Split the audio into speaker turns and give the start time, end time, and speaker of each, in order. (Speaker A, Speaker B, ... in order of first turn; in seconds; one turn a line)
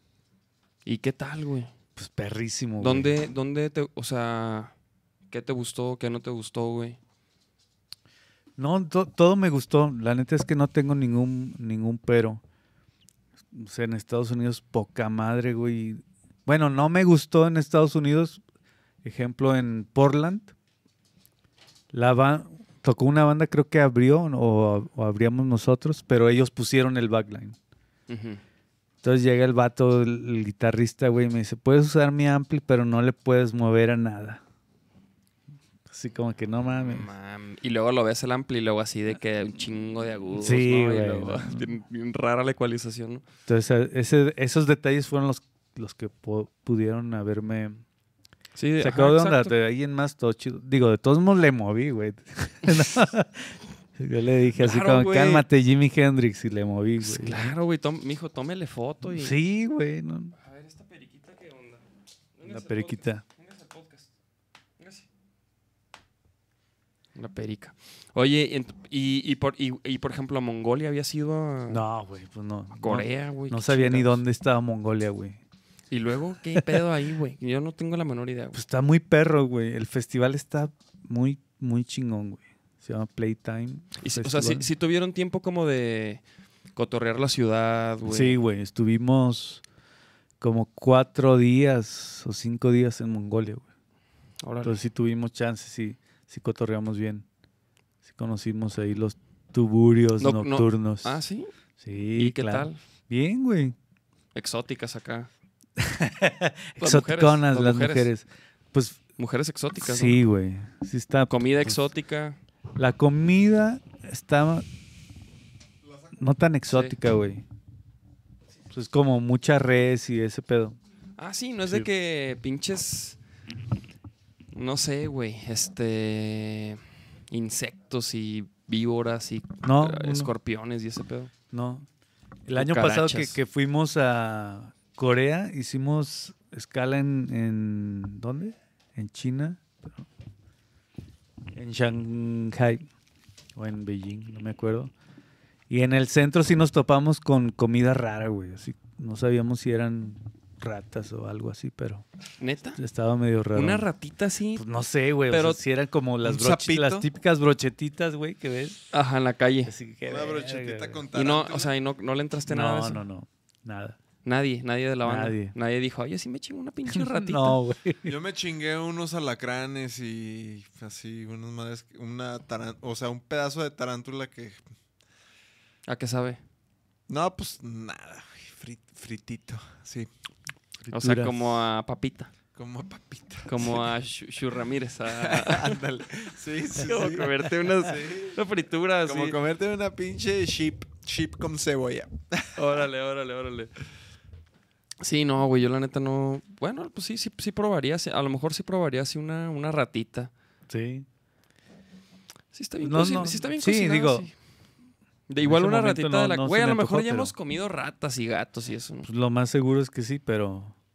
Speaker A: 0.8-1.7
Speaker B: 1.9-3.1
Speaker A: 2.8-4.7
Speaker A: 5.3-7.0
Speaker B: 8.6-12.4
Speaker B: 13.5-18.4
Speaker B: 19.0-20.5
Speaker B: 21.9-27.6
Speaker A: 28.1-28.4
Speaker B: 29.0-34.4
Speaker B: 35.9-37.1
Speaker A: 36.8-43.2
Speaker B: 40.3-41.6
Speaker B: 43.5-47.8
Speaker A: 48.5-49.5
Speaker B: 48.8-57.5
Speaker A: 54.6-55.4
Speaker A: 57.0-59.4
Speaker B: 59.1-60.3
Speaker A: 60.3-61.8
Speaker A: 62.3-64.1
Speaker B: 62.5-63.2
Speaker A: 64.8-65.0
Speaker A: 67.1-71.8
Speaker B: 71.7-75.4
Speaker A: 72.8-74.2
Speaker A: 75.9-78.6
Speaker B: 78.5-84.7
Speaker A: 84.0-86.2
Speaker A: 86.8-88.4
Speaker B: 88.1-89.6
Speaker B: 90.4-93.7
Speaker A: 94.4-94.8
Speaker B: 94.6-97.2
Speaker B: 98.0-101.2
Speaker A: 100.2-101.5
Speaker B: 101.8-103.8
Speaker A: 102.2-102.8
Speaker A: 104.3-105.3
Speaker B: 105.8-109.0
Speaker A: 106.8-108.1
Speaker A: 109.2-110.2
Speaker B: 109.8-111.8
Speaker A: 111.3-112.4
Speaker B: 112.8-114.7
Speaker B: 116.2-117.4
Speaker A: 116.7-117.0
Speaker B: 118.7-120.8
Speaker A: 121.2-123.2
Speaker A: 124.5-131.3
Speaker B: 129.6-130.3
Speaker B: 131.5-131.9
Speaker B: 132.5-140.0
Speaker A: 132.5-133.4
Speaker B: 141.5-142.9
Speaker B: 143.6-144.9
Speaker B: 145.7-152.0
Speaker A: 152.4-152.8
Speaker B: 152.8-153.9
Speaker A: 153.5-154.6
Speaker B: 154.5-158.9
Speaker A: 155.3-155.6
Speaker C: 156.2-157.1
Speaker A: 158.9-159.7
Speaker B: 159.7-161.0
Speaker C: 160.0-161.7
Speaker A: 161.1-163.0
Speaker B: 162.5-164.0
Speaker A: 164.2-167.6
Speaker B: 165.0-165.5
Speaker B: 166.9-168.1
Speaker C: 168.0-174.6
Speaker A: 175.9-176.4
Speaker C: 177.1-180.1
Speaker B: 180.8-181.6
Speaker A: 180.9-182.3
Speaker C: 182.5-183.8
Speaker A: 183.4-185.8
Speaker C: 185.2-188.4
Speaker A: 186.8-189.3
Speaker C: 189.1-192.5
Speaker A: 192.6-193.7
Speaker A: 195.0-200.3
Speaker B: 200.7-201.1
Speaker A: 202.5-204.3
Speaker B: 202.8-204.3
Speaker A: 205.3-209.1
Speaker B: 205.4-207.3
Speaker B: 209.0-210.8